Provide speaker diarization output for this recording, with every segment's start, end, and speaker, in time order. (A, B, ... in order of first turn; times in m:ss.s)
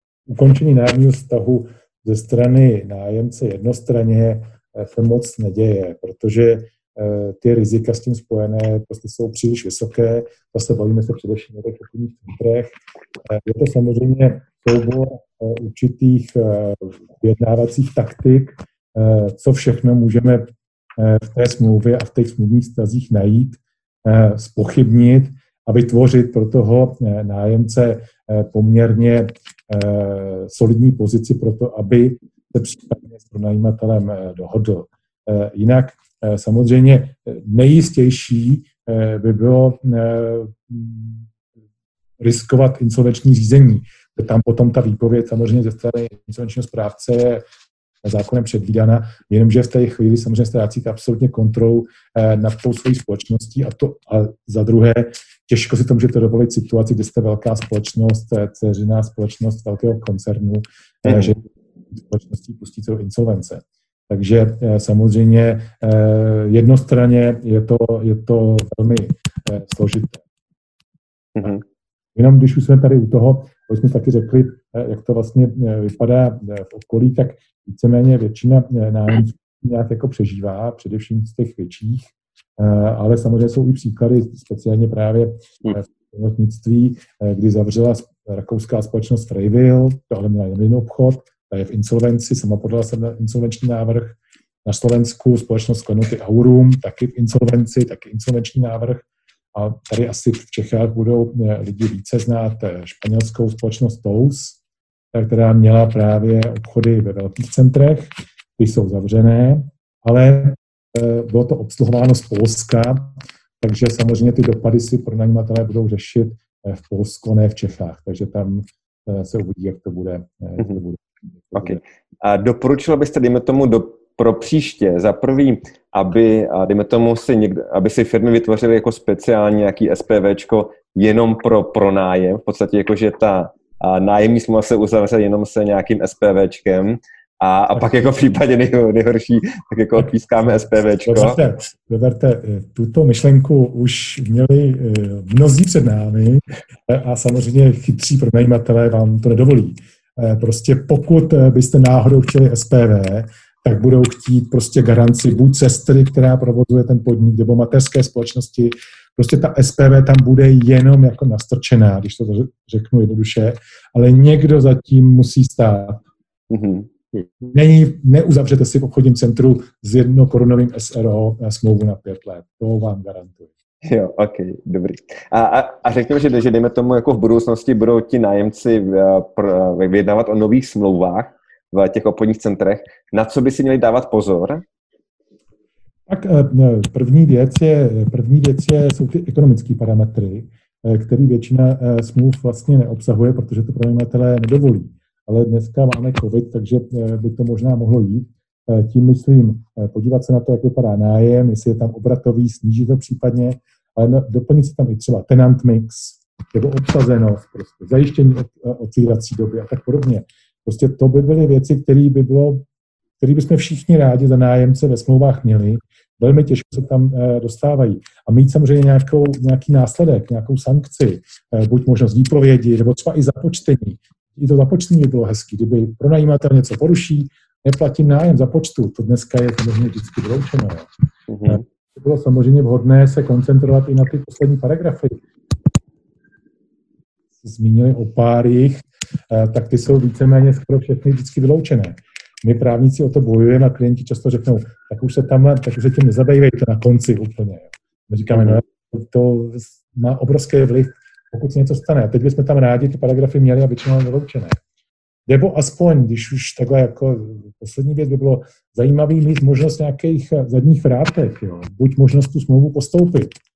0:00.3-0:41.3 A
0:42.2-0:47.4 A
0:48.0-1:10.2 A
1:01.0-1:01.3 B
1:11.3-1:11.6 B
1:12.2-1:44.6 A
1:45.1-2:01.8 A
2:01.5-2:21.4 B
2:17.7-2:18.1 A
2:21.0-2:46.0 A
2:46.5-2:47.2 B
2:47.4-2:53.5 A
2:53.8-3:04.6 B
3:06.1-3:32.6 A
3:33.2-3:50.9 A
3:51.3-3:51.6 B
3:51.4-3:55.2 A
3:57.4-4:14.6 A
4:08.3-4:08.6 B
4:15.3-4:23.4 A